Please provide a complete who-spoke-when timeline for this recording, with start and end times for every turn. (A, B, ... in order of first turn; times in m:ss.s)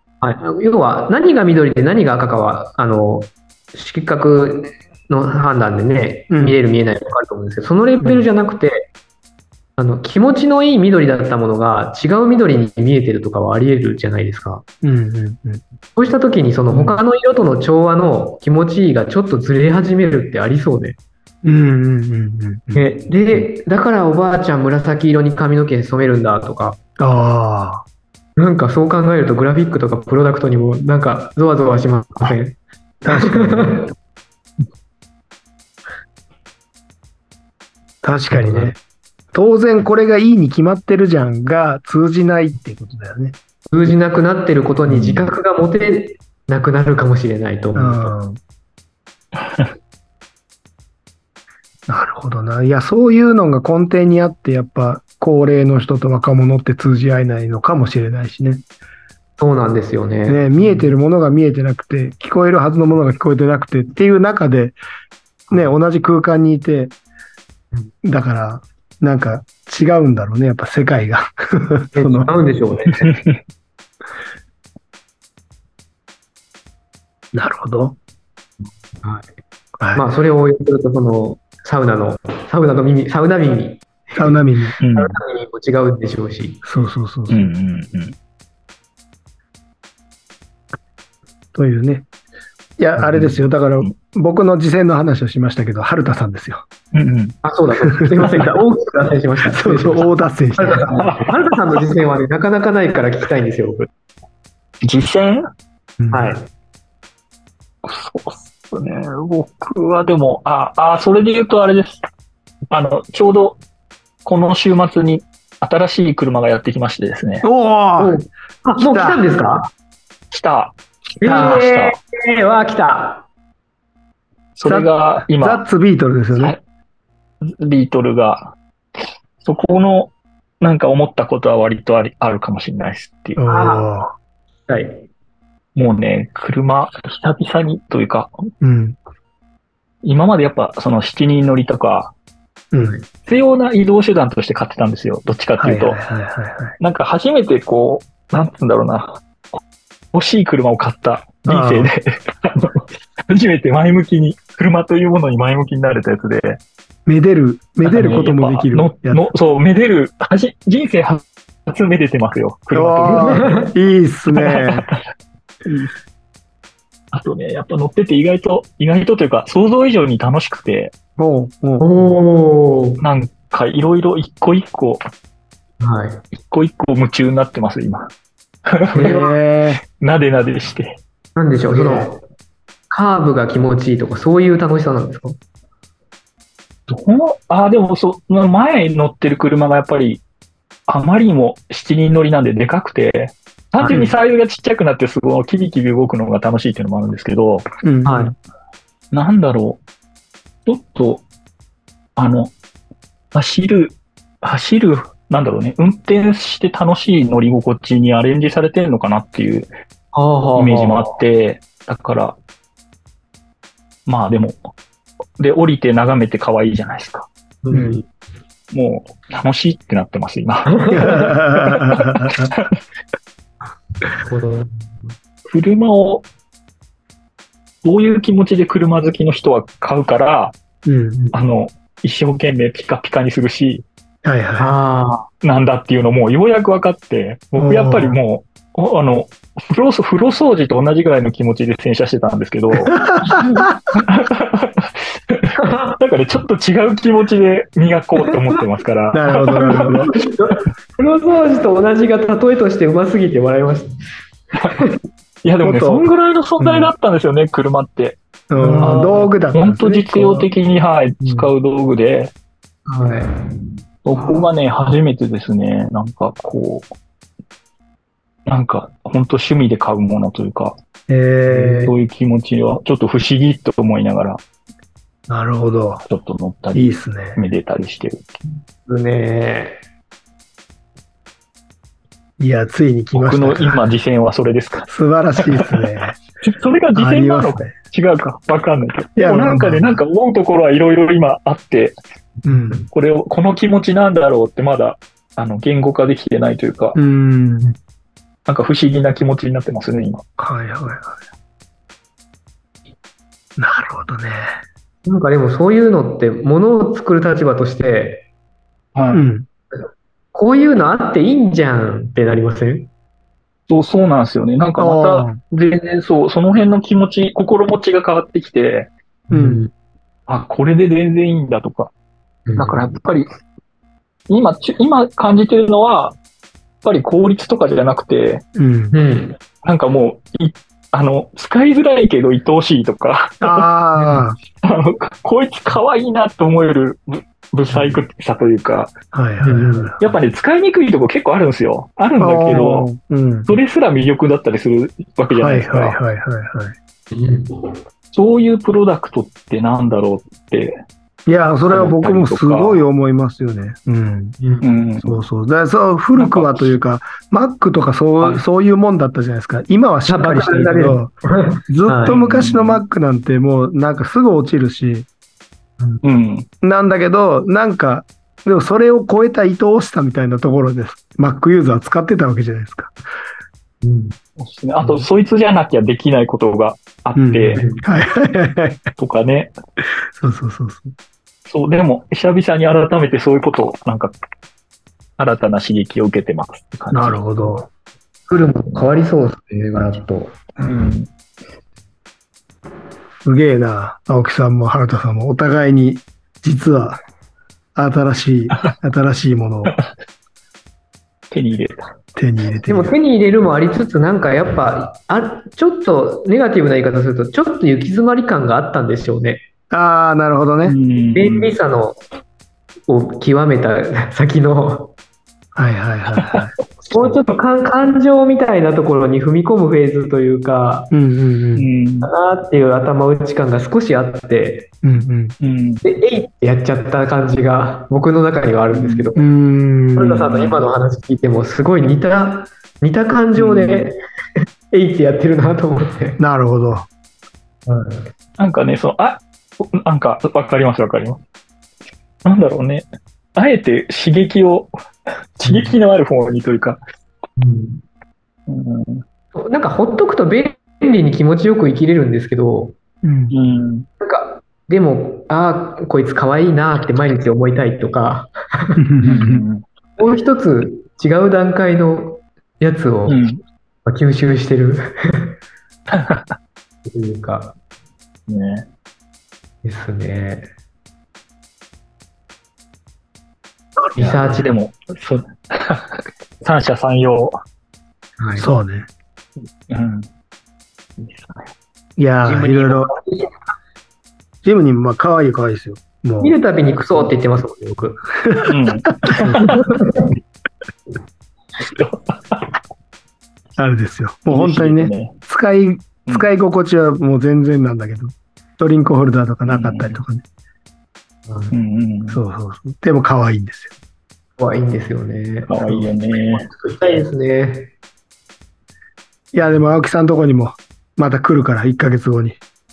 0:00.2-0:08.9 A
0:06.3-0:06.6 B
0:08.0-0:08.3 B
0:09.8-0:14.6 A
0:14.8-0:15.6 B
0:16.0-0:21.0 A
0:16.7-0:17.0 B
0:21.4-0:23.4 B
0:22.7-0:26.8 A
0:27.0-0:27.8 B
0:28.4-0:33.8 A
0:33.0-0:33.8 B
0:38.0-0:38.8 B
0:38.3-0:38.7 A
0:39.3-0:43.4 B
0:43.7-0:48.1 A
0:44.9-0:45.3 C
0:47.7-0:48.4 B
0:49.4-0:49.7 C
0:51.9-0:58.6 B
0:59.4-1:00.9 A
1:00.3-1:04.8 B
1:05.5-1:06.9 B
1:08.0-1:12.3 B
1:11.9-1:13.1 A
1:13.1-1:13.4 C
1:17.3-1:18.0 B
1:19.0-1:19.3 A
1:19.8-1:20.0 B
1:19.9-1:24.4 A
1:24.1-1:24.8 B
1:24.8-1:25.2 C
1:24.9-1:26.6 A
1:26.6-1:27.5 B
1:27.3-1:28.1 C
1:31.5-1:32.1 B
1:32.8-1:36.7 B
1:33.1-1:33.9 C
1:36.9-1:37.4 C
1:37.4-1:43.9 A
1:37.9-1:38.4 B
1:39.5-1:40.9 B
1:40.9-1:41.3 C
1:44.8-1:45.5 C
1:46.0-1:46.4 B
1:46.1-1:46.5 A
1:47.8-1:52.0 C
1:52.7-1:53.6 C
1:54.2-1:57.4 C
1:57.4-1:58.2 B
1:58.0-1:59.7 A
1:58.8-1:59.2 B
2:00.3-2:02.0 C
2:01.2-2:03.3 A
2:01.2-2:01.6 B
2:04.6-2:05.6 C
2:04.6-2:06.5 B
2:06.3-2:06.6 C
2:07.4-2:08.6 C
2:09.4-2:13.4 C
2:13.4-2:14.1 B
2:13.4-2:13.8 A
2:14.7-2:15.1 A
2:15.8-2:18.3 C
2:18.6-2:19.0 B
2:20.0-2:22.1 C
2:22.7-2:23.0 B
2:23.2-2:26.0 C
2:25.6-2:26.8 B
2:26.8-2:29.2 C
2:30.1-2:36.6 C
2:31.5-2:31.9 B
2:37.0-2:39.3 B
2:37.8-2:43.3 C
2:42.7-2:44.9 B
2:43.1-2:43.7 A
2:44.3-2:45.0 C
2:45.6-2:45.9 C
2:47.1-2:50.9 C
2:51.2-2:51.8 B
2:51.8-2:53.0 A
2:53.0-2:55.0 C
2:55.8-2:56.2 A
2:56.4-2:58.1 C
2:58.7-2:59.3 C
2:58.9-2:59.2 A
2:59.0-2:59.8 B
2:59.8-3:01.0 C
3:01.4-3:02.2 A
3:01.7-3:02.1 B
3:02.9-3:05.4 A
3:06.9-3:10.2 C
3:10.9-3:17.6 C
3:13.8-3:14.1 A
3:17.8-3:18.3 B
3:18.0-3:18.3 A
3:19.1-3:19.8 C
3:20.6-3:21.2 C
3:22.2-3:22.5 C
3:23.3-3:29.7 C
3:30.1-3:31.1 A
3:30.6-3:32.4 C
3:34.0-3:34.6 C
3:35.4-3:37.3 C
3:37.6-3:38.0 A
3:37.7-3:38.0 B
3:38.7-3:42.7 C
3:40.7-3:41.3 A
3:40.9-3:42.5 B
3:44.2-3:44.8 A
3:45.5-3:46.2 C
3:47.8-3:50.5 C
3:50.8-3:51.2 B
3:51.3-3:53.8 C
3:54.2-3:54.7 B
3:54.6-3:55.3 A
3:55.4-4:03.0 C
3:57.6-3:58.2 B
4:02.8-4:03.7 B
4:03.9-4:10.0 C
4:05.6-4:05.9 A
4:09.1-4:10.1 B
4:09.8-4:13.9 A
4:14.6-4:15.0 A
4:15.4-4:18.2 C
4:15.6-4:16.1 B
4:16.6-4:16.9 B
4:18.5-4:20.5 B
4:18.6-4:19.1 A
4:18.7-4:22.3 C
4:21.2-4:21.5 A
4:22.9-4:23.3 A
4:24.0-4:26.9 C
4:28.4-4:30.8 C
4:31.1-4:31.9 B
4:31.5-4:34.4 C
4:35.3-4:36.0 B
4:36.0-4:38.4 C
4:36.7-4:37.4 B
4:38.8-4:39.8 A
4:42.4-4:43.8 B
4:43.1-4:45.8 C
4:44.9-4:46.2 B
4:46.4-4:51.9 C
4:46.9-4:47.7 B
4:49.2-4:50.0 B
4:52.4-4:52.8 B
4:52.9-4:57.0 C
4:56.9-4:57.7 B
4:58.5-5:00.2 C
5:00.4-5:01.2 B
5:03.6-5:04.6 B
5:05.0-5:08.2 A
5:08.9-5:09.2 C
5:09.1-5:09.5 B
5:09.7-5:12.9 A
5:13.7-5:18.9 C
5:14.8-5:15.4 B
5:19.3-5:19.7 A
5:19.3-5:19.7 B
5:20.3-5:21.9 C
5:22.5-5:22.9 A
5:22.6-5:23.2 C
5:24.3-5:26.2 C
5:26.8-5:28.4 C
5:28.5-5:28.9 B
5:28.9-5:29.4 A
5:29.6-5:38.9 C
5:33.4-5:34.4 B
5:39.1-5:40.1 B
5:39.4-5:39.9 A
5:40.0-5:42.9 C
5:42.2-5:43.5 B
5:43.5-5:46.0 C
5:45.4-5:46.8 B
5:47.1-5:47.7 A
5:48.1-5:50.8 C
5:51.3-5:54.4 B
5:51.7-5:52.8 C
5:54.4-5:54.7 A
5:54.6-5:55.2 C
5:55.0-6:01.1 B
5:56.1-5:56.6 C
6:00.1-6:02.1 A
6:01.7-6:05.1 B
6:02.1-6:02.8 C
6:06.0-6:06.5 C
6:06.6-6:12.9 B
6:13.8-6:14.2 A
6:14.4-6:17.6 C
6:17.2-6:18.9 B
6:17.5-6:17.8 A
6:19.0-6:19.5 C
6:20.2-6:20.9 B
6:21.5-6:24.1 C
6:25.2-6:27.2 C
6:26.9-6:27.7 B
6:28.3-6:30.4 A
6:30.6-6:31.1 C
6:33.2-6:37.0 B
6:37.8-6:39.7 B
6:41.3-6:41.9 C
6:42.1-6:43.0 B
6:42.6-6:49.4 A
6:49.7-6:50.8 B
6:50.6-6:51.5 C
6:51.1-6:52.0 A
6:52.9-6:54.9 A
6:55.5-6:56.5 B
6:56.8-7:00.9 A
7:00.9-7:01.6 B
7:01.6-7:02.1 C
7:02.0-7:04.7 A
7:04.8-7:05.3 B
7:05.4-7:05.8 C
7:05.8-7:09.2 A
7:09.1-7:10.5 B
7:10.0-7:14.0 A
7:13.4-7:13.9 C
7:14.7-7:16.2 A
7:16.2-7:16.9 B
7:17.6-7:18.1 A
7:18.4-7:21.2 C
7:22.2-7:24.7 C
7:25.4-7:26.8 C
7:25.4-7:25.8 A
7:27.4-7:27.8 A
7:28.5-7:29.0 C
7:29.3-7:32.8 A
7:33.0-7:33.3 B
7:33.3-7:33.9 C
7:34.0-7:38.8 A
7:38.8-7:39.4 B
7:39.0-7:39.6 C
7:40.0-7:43.2 A
7:43.1-7:43.4 C
7:43.8-7:45.3 A
7:45.9-7:46.3 C
7:46.8-7:47.5 A
7:48.3-7:48.6 C
7:49.6-7:50.5 A
7:54.0-7:54.5 A
7:54.0-7:57.4 C
7:58.2-7:58.5 A
7:58.4-7:58.9 B
7:59.7-8:00.1 C
8:01.0-8:01.5 C
8:02.0-8:02.9 B
8:02.2-8:03.3 A
8:04.4-8:06.4 B
8:06.2-8:08.0 A
8:08.2-8:09.6 B
8:08.4-8:09.6 C
8:09.4-8:10.1 A
8:11.6-8:12.4 C
8:13.6-8:20.2 B
8:14.3-8:15.1 C
8:19.5-8:20.0 C
8:21.3-8:21.5 A
8:21.5-8:22.2 C
8:22.1-8:23.7 B
8:24.4-8:27.7 A
8:25.5-8:26.5 C
8:29.3-8:32.4 B